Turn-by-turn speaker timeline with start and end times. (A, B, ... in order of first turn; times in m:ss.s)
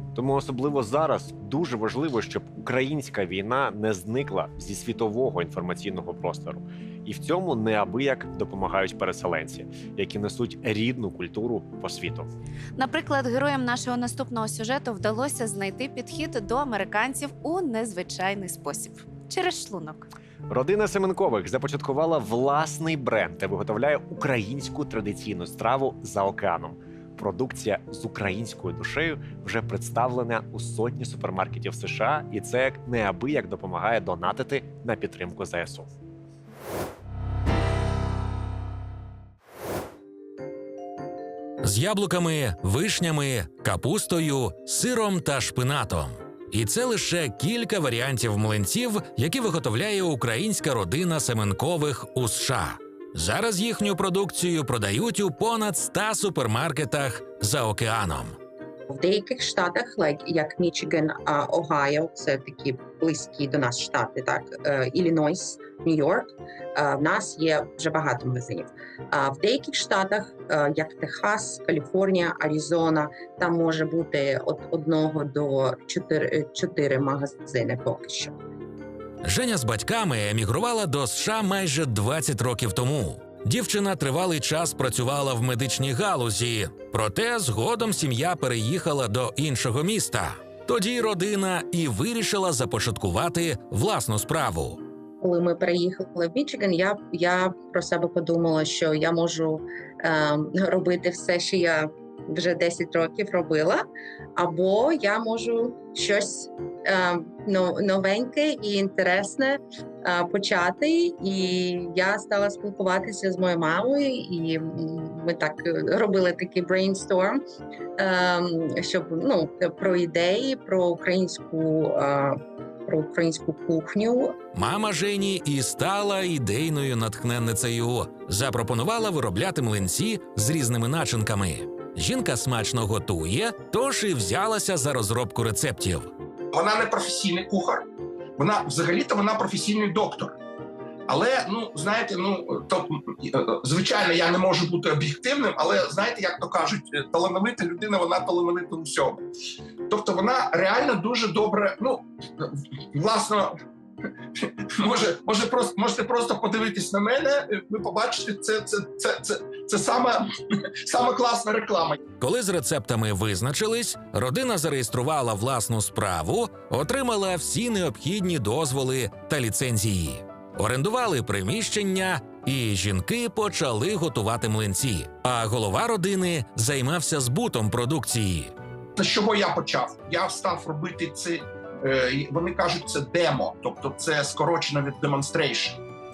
0:00.1-0:12.3 A
0:12.8-0:20.1 B
0:20.5-0:35.9 A
0:41.6-0:58.4 C
0:58.9-1:18.4 D
1:19.2-1:34.8 C
1:35.2-1:43.8 D
1:44.4-1:57.4 D
1:58.0-2:04.4 D
2:04.5-2:16.1 C
2:16.5-2:17.8 E
2:18.4-2:20.4 E
2:21.1-2:29.2 E
2:29.9-2:33.5 E
2:34.4-2:40.2 E
2:40.8-2:42.0 E
2:42.2-2:58.5 C
2:59.0-3:05.8 E